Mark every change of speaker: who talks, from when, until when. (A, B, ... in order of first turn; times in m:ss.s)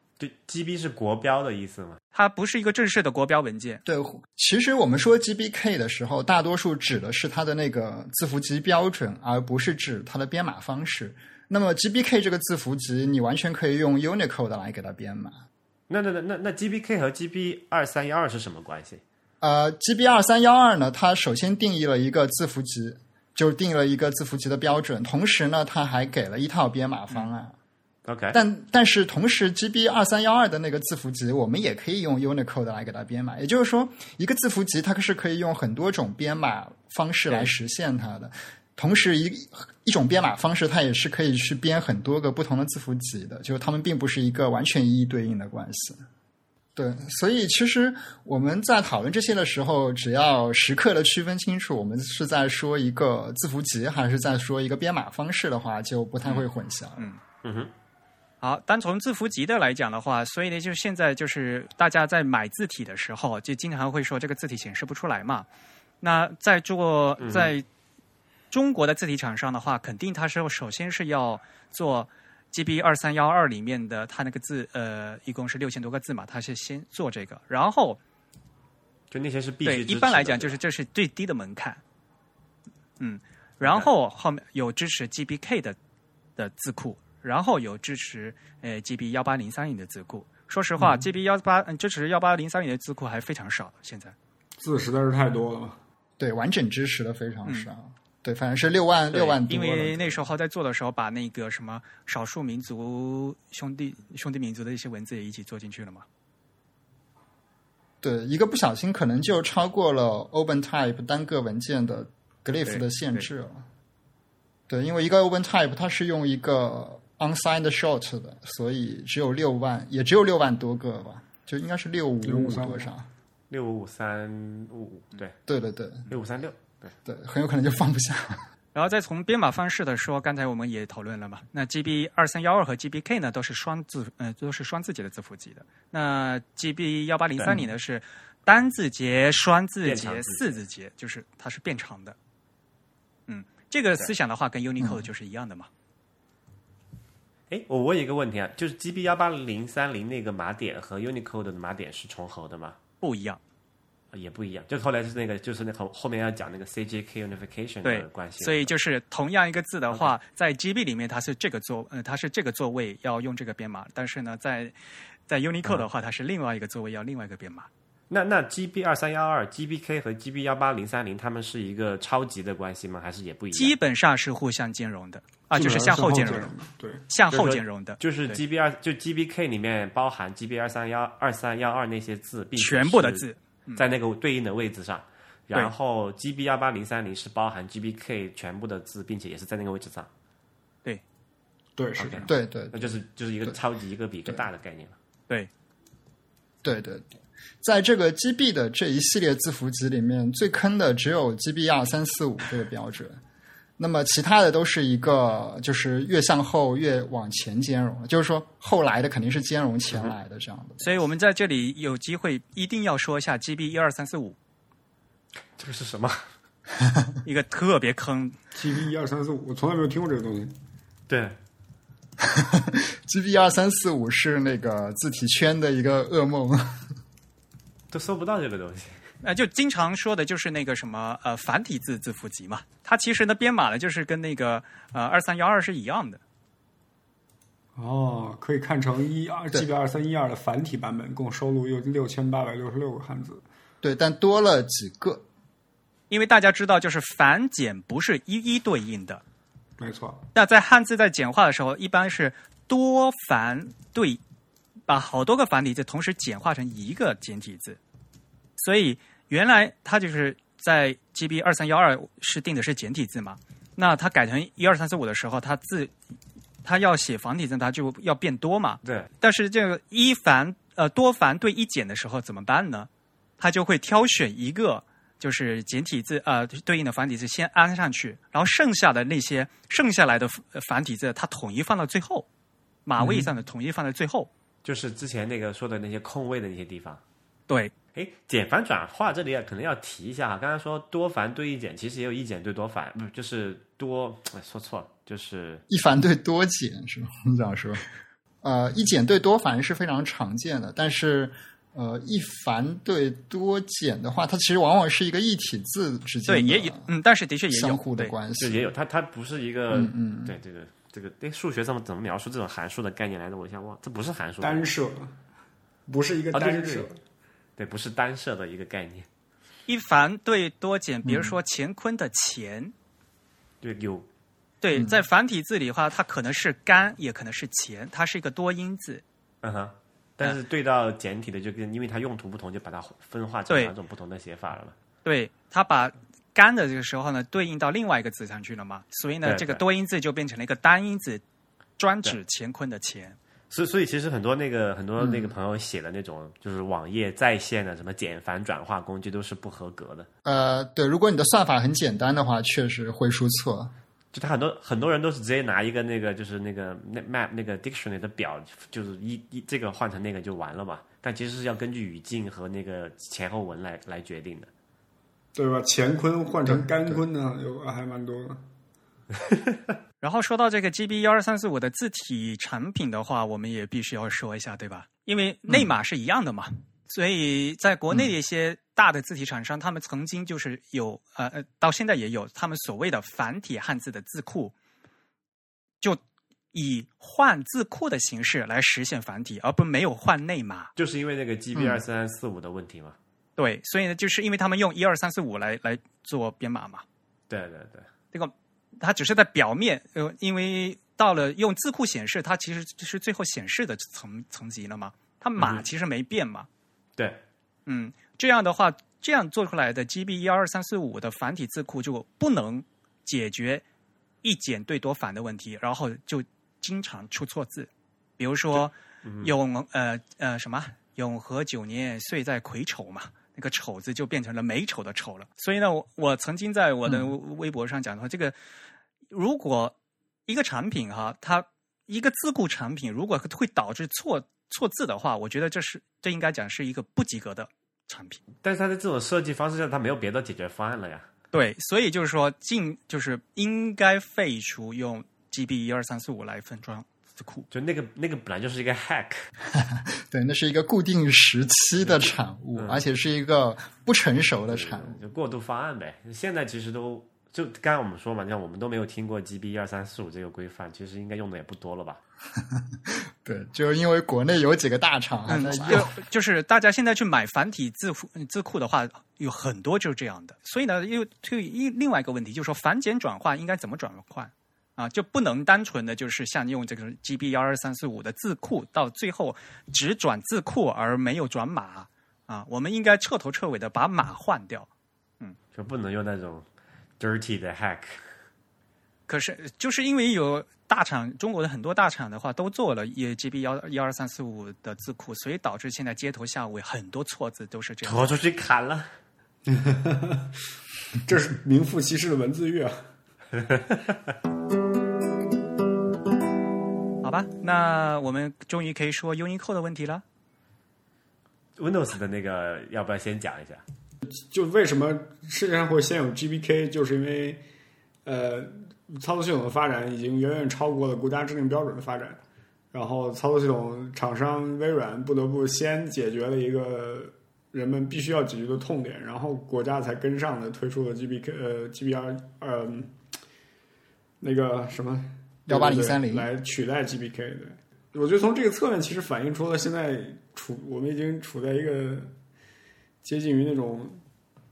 0:00.2-0:02.0 A
0:02.1-0:03.8 B
0:03.8-0:15.4 C
0:15.9-0:19.0 A
0:19.4-0:27.6 C
0:28.1-0:28.4 A
0:28.3-0:46.0 C
0:46.8-0:57.1 C
0:57.4-0:57.7 A
0:58.4-1:05.5 B
1:06.0-1:07.7 B
1:07.2-1:07.5 A
1:08.5-1:18.0 B
1:19.1-1:20.6 A
1:19.6-1:21.8 B
1:23.0-1:25.8 B
1:23.6-1:23.9 A
1:26.4-1:34.2 B
1:34.6-1:35.8 D
1:36.2-1:40.2 C
1:39.1-1:46.0 B
1:48.0-1:53.6 C
1:52.7-1:53.3 B
1:54.7-2:03.1 C
2:02.2-2:02.9 D
2:03.5-2:05.4 A
2:05.5-2:06.1 C
2:06.1-2:06.9 A
2:07.0-2:08.4 C
2:08.7-2:22.2 B
2:19.8-2:20.6 A
2:23.3-2:25.7 B
2:24.8-2:25.1 C
2:27.5-2:32.8 A
2:33.0-2:33.4 B
2:34.1-2:38.7 A
2:37.8-2:44.8 B
2:45.3-2:47.7 B
2:48.1-2:53.8 A
2:53.5-2:56.5 B
2:55.5-2:57.0 D
2:57.1-2:58.4 B
2:57.3-3:10.1 A
3:02.6-3:03.8 B
3:11.8-3:12.3 D
3:12.0-3:15.0 A
3:12.3-3:12.9 C
3:16.6-3:17.1 C
3:17.6-3:23.2 C
3:23.8-3:30.9 C
3:30.8-3:34.4 B
3:35.6-3:36.2 A
3:36.8-3:37.2 C
3:37.2-3:38.4 B
3:38.5-3:40.5 D
3:41.1-3:41.4 A
3:42.2-3:46.8 C
3:47.9-3:49.0 A
3:49.2-3:56.2 B
3:57.8-4:03.4 D
4:03.8-4:05.2 C
4:06.1-4:09.2 B
4:09.8-4:10.3 D
4:10.3-4:14.2 B
4:14.9-4:17.8 B
4:18.6-4:26.0 B
4:26.6-4:42.3 B
4:28.8-4:29.1 A
4:42.9-4:44.3 B
4:44.6-4:47.0 A
4:47.9-4:55.6 A
4:55.7-4:57.8 C
4:58.4-5:06.9 C
5:06.3-5:08.1 B
5:07.5-5:08.7 C
5:08.4-5:14.7 A
5:09.7-5:10.4 C
5:14.4-5:15.2 D
5:15.9-5:17.0 D
5:16.3-5:16.9 A
5:17.6-5:19.1 A
5:19.7-5:22.7 B
5:21.0-5:21.4 C
5:23.6-5:24.1 A
5:24.6-5:29.0 B
5:24.8-5:25.0 C
5:29.4-5:34.7 A
5:35.0-5:41.2 B
5:39.2-5:39.6 A
5:41.8-5:43.2 B
5:43.5-5:50.1 A
5:45.0-5:45.3 C
5:50.2-5:53.7 C
5:54.1-6:04.5 A
6:05.4-6:08.4 D
6:10.0-6:24.5 B
6:26.5-6:30.7 B
6:30.8-6:33.0 A
6:31.5-6:31.8 C
6:33.4-6:36.8 B
6:37.3-6:37.9 A
6:38.1-6:46.5 B
6:45.4-6:45.7 A
6:47.7-6:53.6 B
6:54.2-7:08.4 B
6:58.5-6:59.3 A
7:09.1-7:09.8 B
7:10.3-7:18.2 B
7:18.4-7:21.1 A
7:21.3-7:27.5 B
7:27.5-7:29.3 A
7:29.5-7:35.0 C
7:31.8-7:32.8 A
7:34.5-7:42.0 A
7:42.5-7:45.9 C
7:45.3-8:04.7 B
8:05.5-8:06.4 A
8:07.0-8:08.1 A
8:09.1-8:18.1 B
8:17.8-8:18.9 A
8:19.5-8:20.3 D
8:21.0-8:22.8 D
8:23.4-8:24.0 A
8:27.0-8:30.0 B
8:31.6-8:33.6 A
8:34.1-8:37.4 D
8:38.1-8:42.2 D
8:42.7-8:52.9 D
8:54.2-9:02.1 D
8:55.5-8:56.3 C
9:03.0-9:04.0 D